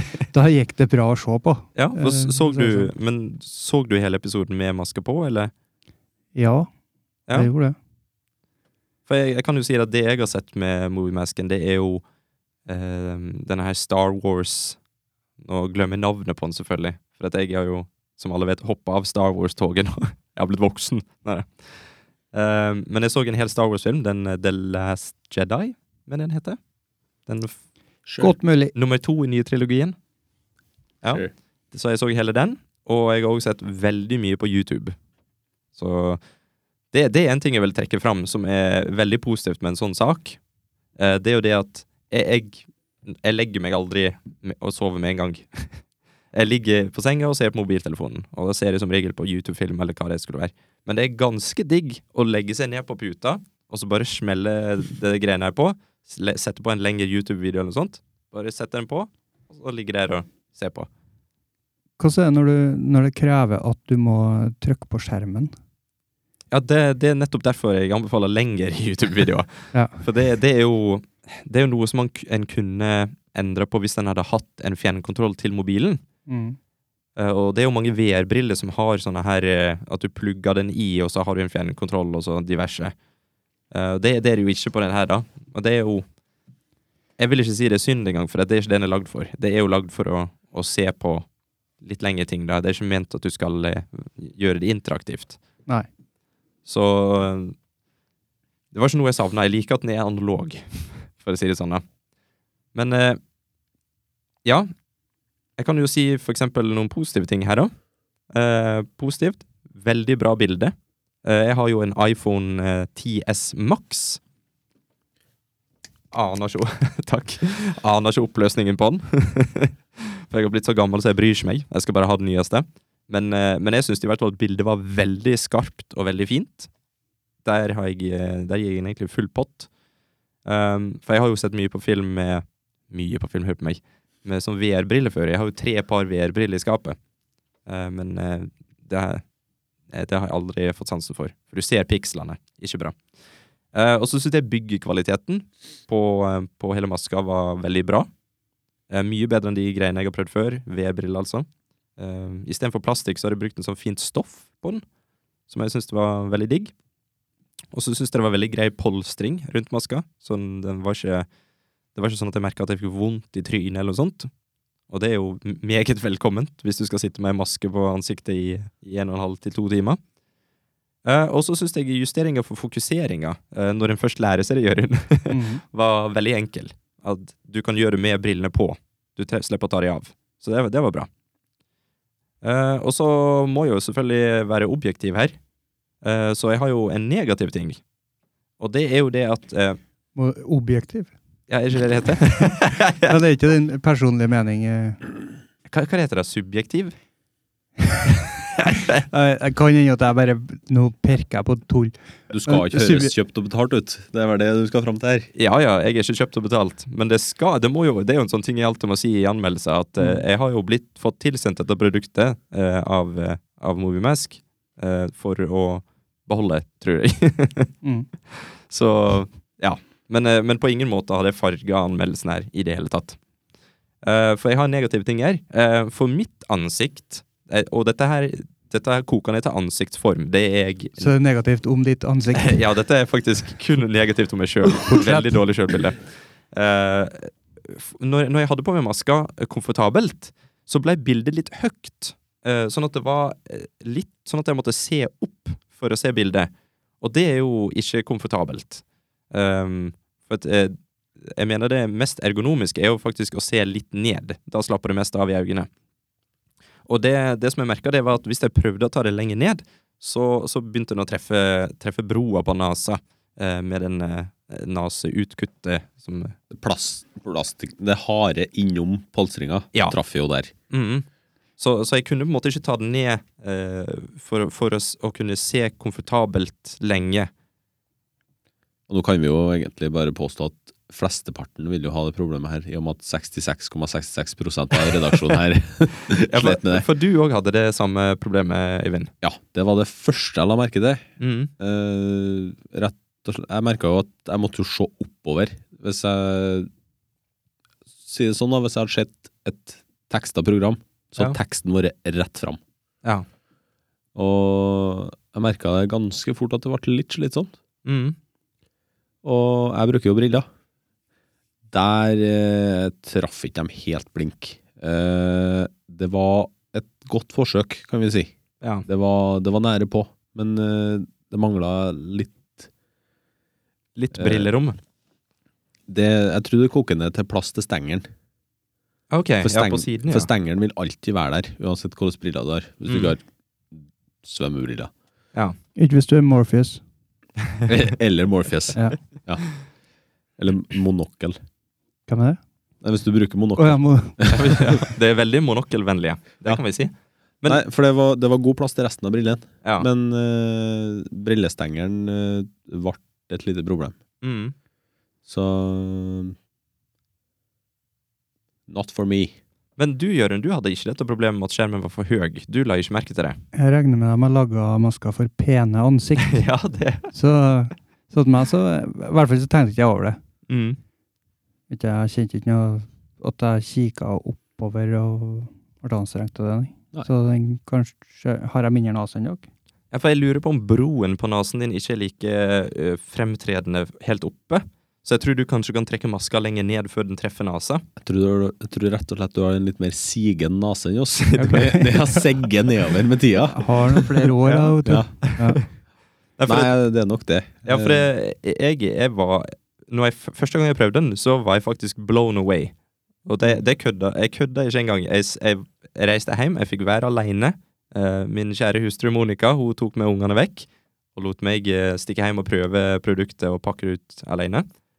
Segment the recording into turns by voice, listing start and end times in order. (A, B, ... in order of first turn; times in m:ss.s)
0:00.3-0:02.9 A
0:01.8-0:05.5 B
0:06.4-0:06.7 A
0:07.4-0:07.8 A
0:09.1-0:12.0 B
0:12.7-0:14.8 B
0:15.4-0:21.5 B
0:22.3-0:26.6 B
0:27.3-0:27.6 B
0:28.1-0:28.3 C
0:28.2-0:28.7 A
0:28.7-0:30.0 B
0:31.0-0:35.0 B
0:35.8-0:36.2 B
0:36.9-0:40.4 B
0:41.0-0:45.8 B
0:46.3-1:00.9 B
1:02.0-1:05.5 A
1:06.5-1:16.0 B
1:09.7-1:10.0 A
1:16.3-1:16.6 A
1:17.2-1:22.9 B
1:23.7-1:26.1 B
1:27.2-1:31.3 B
1:31.8-1:35.4 B
1:36.7-1:37.6 B
1:38.7-1:41.8 B
1:42.8-1:43.2 B
1:44.4-1:44.7 B
1:45.6-1:47.7 B
1:48.3-1:54.2 B
1:56.1-2:06.7 B
2:07.4-2:09.7 B
2:10.5-2:17.0 B
2:17.7-2:19.2 B
2:19.9-2:23.0 B
2:23.7-2:28.1 B
2:28.9-2:34.8 B
2:35.5-2:36.7 B
2:37.7-2:41.3 B
2:42.0-2:44.3 B
2:44.9-2:50.0 B
2:51.0-3:01.1 B
2:55.3-2:55.6 A
3:02.4-3:05.4 B
3:06.0-3:07.8 B
3:08.6-3:09.8 B
3:10.2-3:11.1 A
3:11.5-3:13.2 B
3:13.0-3:15.0 A
3:15.7-3:17.0 B
3:18.4-3:19.1 B
3:19.1-3:23.1 A
3:22.3-3:25.3 C
3:25.4-3:37.7 B
3:37.8-3:38.1 A
3:38.3-3:43.2 B
3:44.0-3:51.1 B
3:51.0-3:52.6 A
3:52.4-4:15.7 B
3:54.7-3:55.4 A
4:16.9-4:26.4 B
4:26.5-4:30.5 C
4:30.7-4:31.1 B
4:31.6-4:37.3 B
4:38.9-4:46.9 C
4:46.1-4:49.1 B
4:49.2-4:51.0 C
4:51.2-4:51.5 B
4:51.6-4:56.7 C
4:58.0-5:02.6 C
5:04.2-5:07.5 C
5:07.8-5:08.2 B
5:09.2-5:10.5 C
5:11.7-5:18.3 C
5:18.9-5:22.7 C
5:24.0-5:24.8 B
5:24.2-5:24.5 C
5:25.9-5:28.1 C
5:29.1-5:30.3 B
5:29.4-5:33.2 C
5:32.9-5:33.1 B
5:33.7-5:34.9 C
5:35.8-5:36.8 A
5:37.7-5:39.4 C
5:40.4-5:41.4 C
5:42.1-5:42.4 A
5:42.8-5:44.8 C
5:43.6-5:44.3 A
5:44.3-5:47.6 B
5:47.4-5:54.0 C
5:54.2-5:54.6 B
5:55.3-5:56.4 C
5:58.7-5:59.4 C
5:59.8-6:03.4 B
6:03.5-6:06.4 A
6:06.2-6:07.1 B
6:07.1-6:10.2 A
6:10.5-6:10.8 B
6:11.7-6:19.5 A
6:19.9-6:27.8 B
6:28.0-6:34.1 C
6:31.2-6:32.0 B
6:31.4-6:32.2 A
6:33.5-6:35.6 A
6:34.4-6:35.7 B
6:34.8-6:35.1 C
6:36.4-6:36.7 B
6:36.5-6:38.1 C
6:37.7-6:42.7 B
6:43.3-6:54.7 B